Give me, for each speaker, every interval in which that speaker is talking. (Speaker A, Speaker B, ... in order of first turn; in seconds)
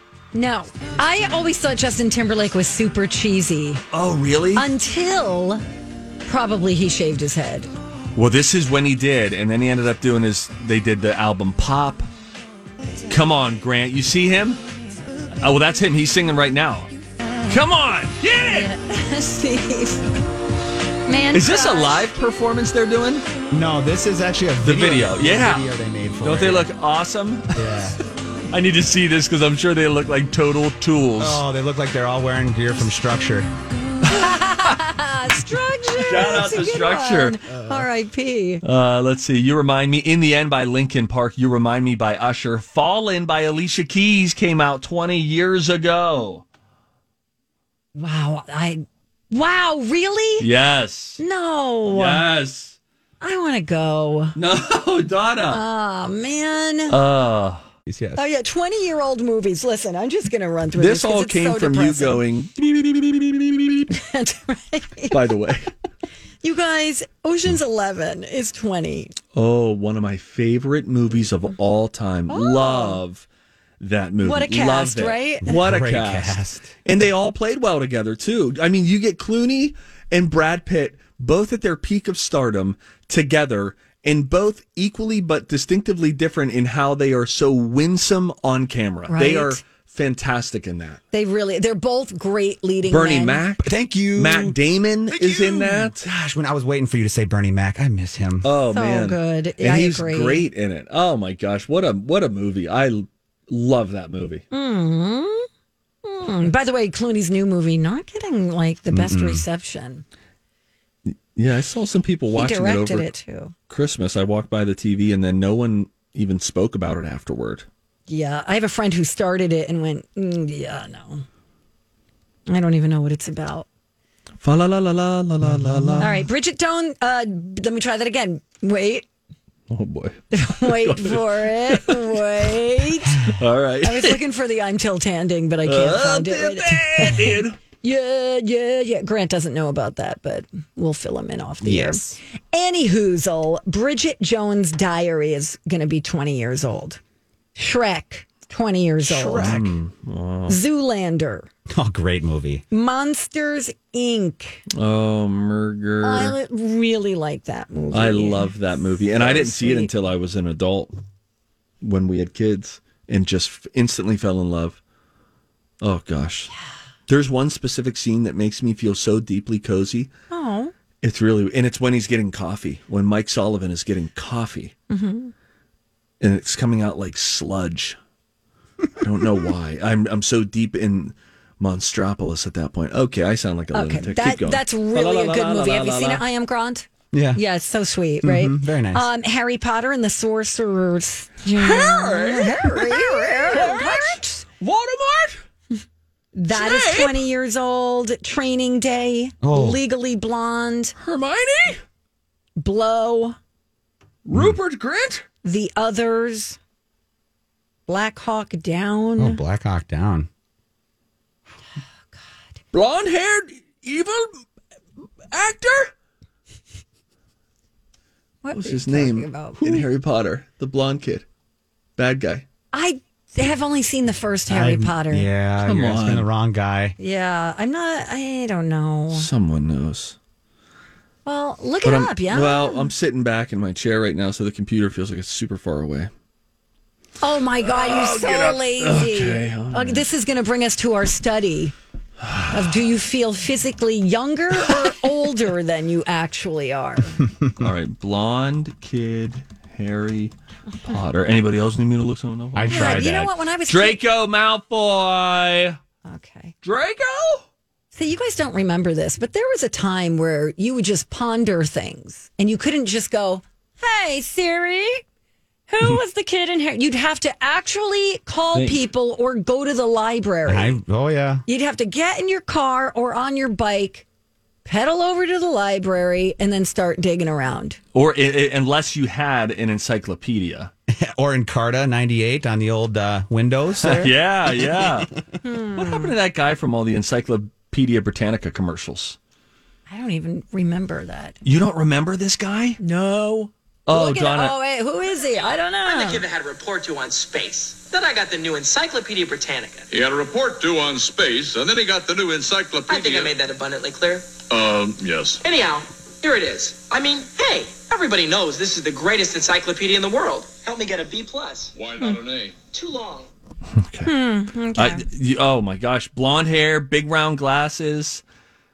Speaker A: 0.3-3.8, 4.5-5.6, 6.2-7.7, 18.4-20.1, 21.1-22.0, 34.1-38.6, 47.9-50.5, 51.2-52.2, 53.2-54.4, 55.5-57.0, 58.2-62.2, 63.9-65.2, 66.4-69.2, 72.3-73.0, 74.2-75.5, 89.1-89.6, 91.1-93.4, 98.7-100.5, 104.5-105.5, 106.0-110.0, 112.3-113.5, 118.1-121.2, 122.5-123.7, 126.0-129.1, 130.3-133.2, 133.8-147.0, 147.6-149.6, 150.5-151.5, 152.7-154.6, 156.0-159.9, 170.3-170.7, 174.9-175.3, 183.7-194.5, 196.3-200.9, 202.6-203.3, 205.4-206.6, 207.9-209.4, 218.4-219.8, 222.7-225.3, 227.0-229.3, 231.2-232.9, 237.2-241.7, 242.5-247.2, 252.7-254.0, 256.1-256.5, 257.9-265.0, 265.7-270.8, 271.5-274.1, 274.6-277.8, 285.4-286.1, 289.9-291.4, 292.8-296.2, 314.1-315.0
Speaker B: 3.9-4.7, 8.1-12.1, 13.1-14.6, 15.4-16.9, 17.5-18.7, 21.3-23.2, 24.6-25.7, 26.2-28.0, 28.5-31.4, 34.1-34.8, 36.0-37.4, 38.6-46.4, 50.4-51.2, 51.9-52.8, 54.4-55.6, 56.9-57.6, 60.8-63.9, 65.1-65.7, 69.3-73.2, 73.8-91.0, 92.8-96.1, 98.4-104.4, 111.1-113.1, 113.7-117.7, 124.4-126.2, 129.7-134.2, 135.7-137.6, 149.3-150.6, 154.7-156.4, 157.9-160.9, 161.8-164.8, 165.8-166.5, 167.1-170.1, 171.0-174.7, 176.2-178.0, 179.0-186.2, 191.5-195.4, 196.5-197.2, 201.0-201.8, 204.2-205.2, 212.7-214.4, 215.3-215.9, 218.5-221.2, 222.0-222.4, 225.6-226.3, 229.1-230.2, 231.8-236.1, 237.6-240.1, 242.2-242.9, 244.6-244.9, 247.6-255.8, 256.6-257.4, 268.5-268.9, 277.9-280.7, 283.8-285.1, 285.7-289.2, 291.4-292.8, 293.9-294.6, 313.8-314.1, 314.7-318.2
Speaker C: 23.5-26.7, 27.5-28.0, 31.2-33.5, 37.5-37.9, 57.9-58.2, 75.4-76.7, 93.6-94.6, 95.1-98.5, 108.9-109.5, 125.4-126.2, 141.6-142.2, 149.1-149.8, 151.7-152.6, 187.1-187.4, 188.2-189.1, 199.4-199.8, 204.3-204.6, 209.2-210.3, 224.5-227.0, 252.5-253.3, 270.4-271.4, 281.1-285.1
Speaker D: 295.8-299.9, 302.9-304.4, 305.4-311.7, 312.7-313.3
Speaker E: 299.9-303.3, 304.5-305.4, 311.7-312.6